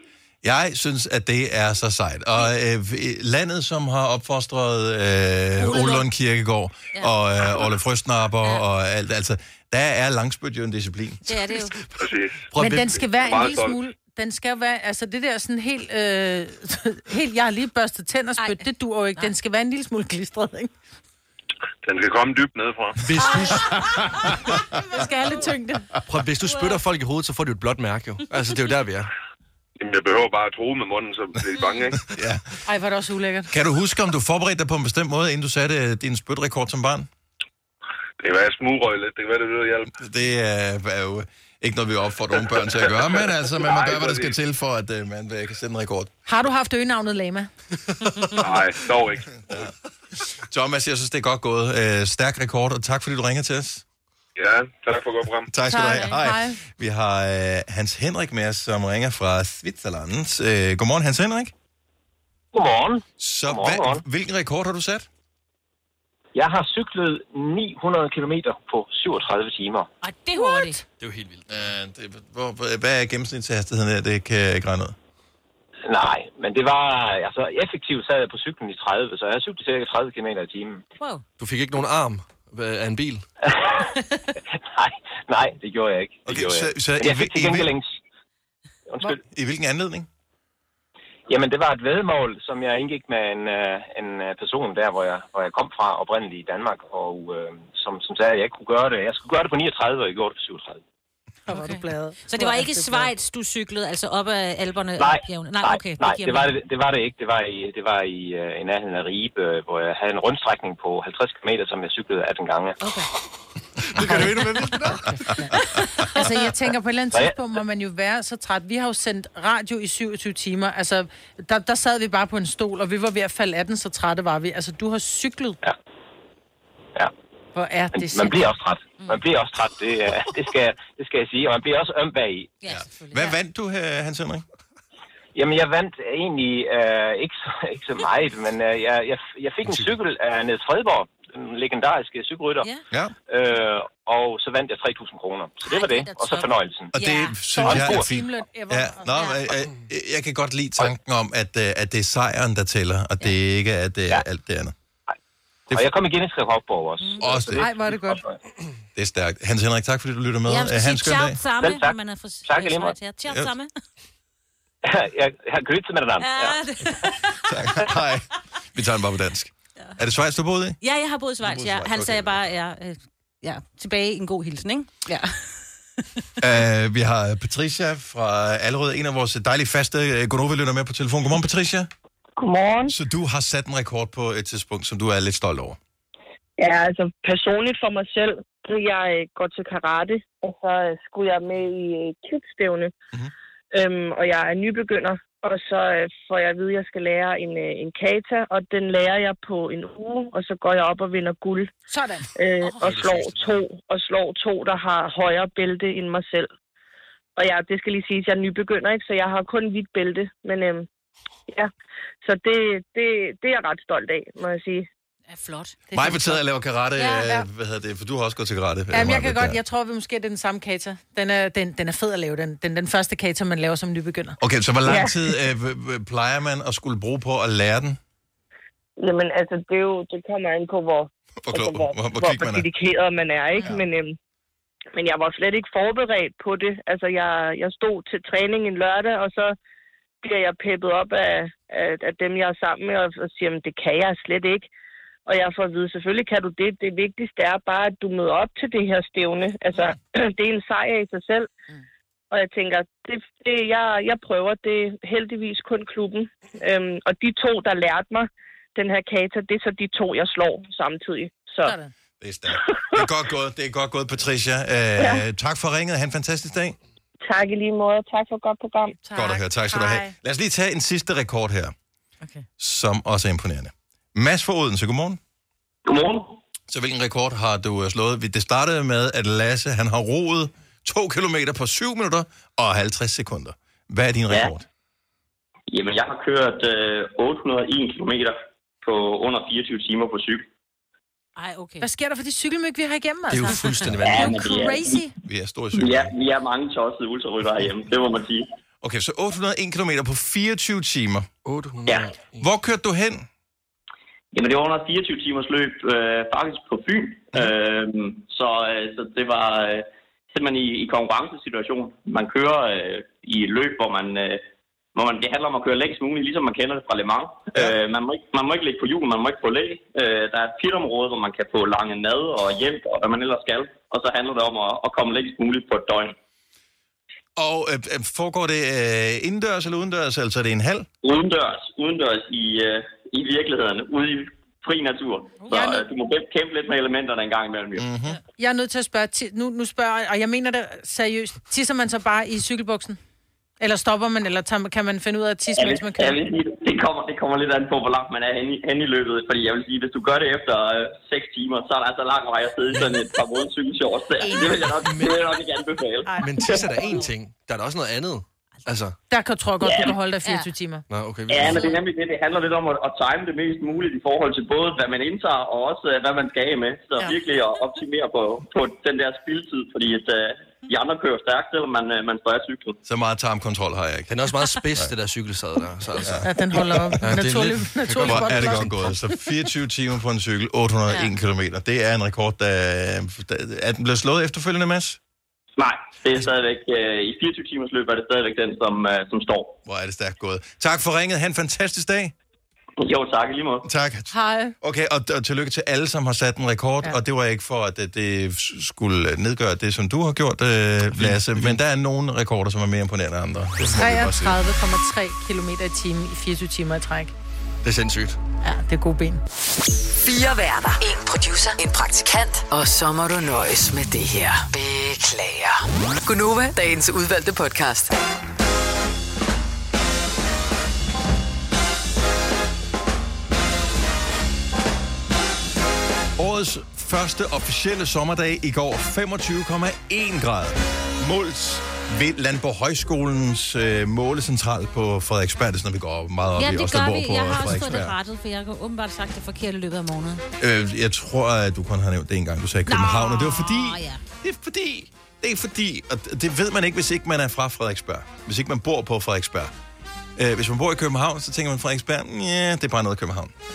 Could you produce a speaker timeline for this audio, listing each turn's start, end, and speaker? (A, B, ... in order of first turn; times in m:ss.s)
0:00.4-0:11.4 A
0:05.6-0:06.0 B
0:11.2-0:11.8 B
0:12.0-0:12.5 C
0:12.5-0:13.0 D
0:12.6-0:20.7 E
0:13.1-0:13.8 C
0:18.4-0:18.6 B
0:21.8-0:23.1 C
0:23.0-0:23.8 D
0:23.2-0:24.3 B
0:24.8-0:25.9 E
0:26.1-0:29.1 D
0:26.4-0:26.8 B
0:29.8-0:32.0 C
0:31.6-0:31.9 B
0:32.1-0:32.4 A
0:32.6-0:33.5 E
0:33.5-0:37.1 A
0:38.2-0:39.9 C
0:39.9-0:46.1 A
0:43.2-0:44.4 C
0:46.2-0:47.5 E
0:48.4-0:49.4 C
0:50.3-0:53.8 A
0:54.4-0:55.5 C
0:55.5-1:01.5 A
0:55.7-0:56.6 E
1:02.5-1:04.0 F
1:03.2-1:05.1 A
1:06.3-1:09.9 F
1:10.0-1:10.8 B
1:11.0-1:11.7 D
1:11.5-1:14.9 A
1:15.9-1:20.8 F
1:21.4-1:23.2 D
1:23.5-1:23.8 F
1:24.8-1:27.9 F
1:26.3-1:27.8 A
1:28.9-1:29.2 F
1:29.2-1:30.1 A
1:31.3-1:40.8 F
1:41.5-1:43.1 E
1:41.5-1:46.6 B
1:45.0-1:52.7 F
1:52.8-1:53.1 B
1:53.9-1:55.0 D
1:56.1-2:05.6 E
2:07.5-2:08.4 E
2:07.9-2:12.6 F
2:09.0-2:09.2 B
2:12.6-2:13.4 B
2:12.7-2:14.4 A
2:15.3-2:22.7 F
2:23.3-2:26.9 F
2:25.6-2:27.4 B
2:27.0-2:34.7 A
2:27.0-2:29.2 E
2:27.6-2:28.0 F
2:35.7-2:38.3 F
2:37.0-2:37.4 B
2:37.2-2:37.7 A
2:37.6-2:38.2 E
2:38.9-2:41.4 A
2:40.5-2:43.7 B
2:41.6-2:43.0 F
2:44.8-2:46.6 F
2:46.2-2:47.6 B
2:47.5-2:50.8 A
2:50.8-2:56.2 B
2:51.4-2:52.5 A
2:56.4-3:01.9 A
3:02.4-3:02.9 G
3:02.9-3:05.8 A
3:06.6-3:12.9 G
3:13.7-3:21.7 G
3:21.9-3:22.3 E
3:22.3-3:26.5 G
3:22.8-3:23.6 D
3:27.4-3:30.9 G
3:32.2-3:34.9 G
3:35.3-3:35.8 B
3:35.9-3:36.4 E
3:35.9-3:39.6 A
3:37.0-3:37.4 B
3:38.9-3:44.4 E
3:44.4-3:48.0 A
3:44.8-3:45.2 G
3:49.0-3:54.2 G
3:51.4-3:52.6 A
3:54.9-3:59.6 G
4:00.2-4:04.7 G
4:05.2-4:11.5 G
4:12.3-4:21.8 G
4:21.6-4:21.9 E
4:22.2-4:26.8 A
4:22.6-4:23.0 G
4:25.0-4:25.2 G
4:27.2-4:29.0 G
4:29.0-4:30.1 E
4:29.1-4:31.7 A
4:32.6-4:35.2 A
4:35.8-4:36.4 H
4:36.7-4:44.6 A
4:45.7-4:50.4 H
4:51.4-4:51.9 B
4:51.8-4:55.1 E
4:53.3-4:54.5 D
4:54.0-4:55.1 H
4:55.3-4:56.1 A
4:55.7-4:58.5 H
4:58.8-5:01.3 A
5:01.4-5:02.5 D
5:02.4-5:03.2 A
5:04.3-5:14.4 H
5:14.9-5:26.2 H
5:27.4-5:30.9 A
5:31.0-5:37.9 H
5:35.4-5:35.8 E
5:37.8-5:38.2 A
5:38.2-5:43.0 E
5:43.6-5:46.2 E
5:45.6-5:56.7 H
5:54.2-5:54.5 E
5:54.7-5:55.2 D
5:56.1-5:56.7 E
5:56.2-5:58.9 D
5:59.1-6:00.8 E
5:59.6-5:59.9 H
6:00.9-6:01.7 D
6:01.3-6:12.8 H
6:01.4-6:01.8 B
6:12.8-6:14.1 A
6:14.1-6:16.3 D
6:16.0-6:17.0 A
6:16.2-6:18.7 E
6:17.0-6:18.8 D
6:18.0-6:25.0 A
6:25.6-6:29.6 H
6:29.6-6:32.1 A
6:32.8-6:33.7 H
6:33.6-6:44.4 A
6:34.1-6:34.5 E
6:41.0-6:41.6 D
6:43.7-6:47.1 E
6:47.6-6:48.2 D
6:48.4-6:49.2 E
6:50.0-6:57.9 I
7:06.2-7:18.0 A
7:16.4-7:20.2 B
7:20.4-7:29.5 A
7:22.7-7:24.0 B
7:30.2-7:33.3 A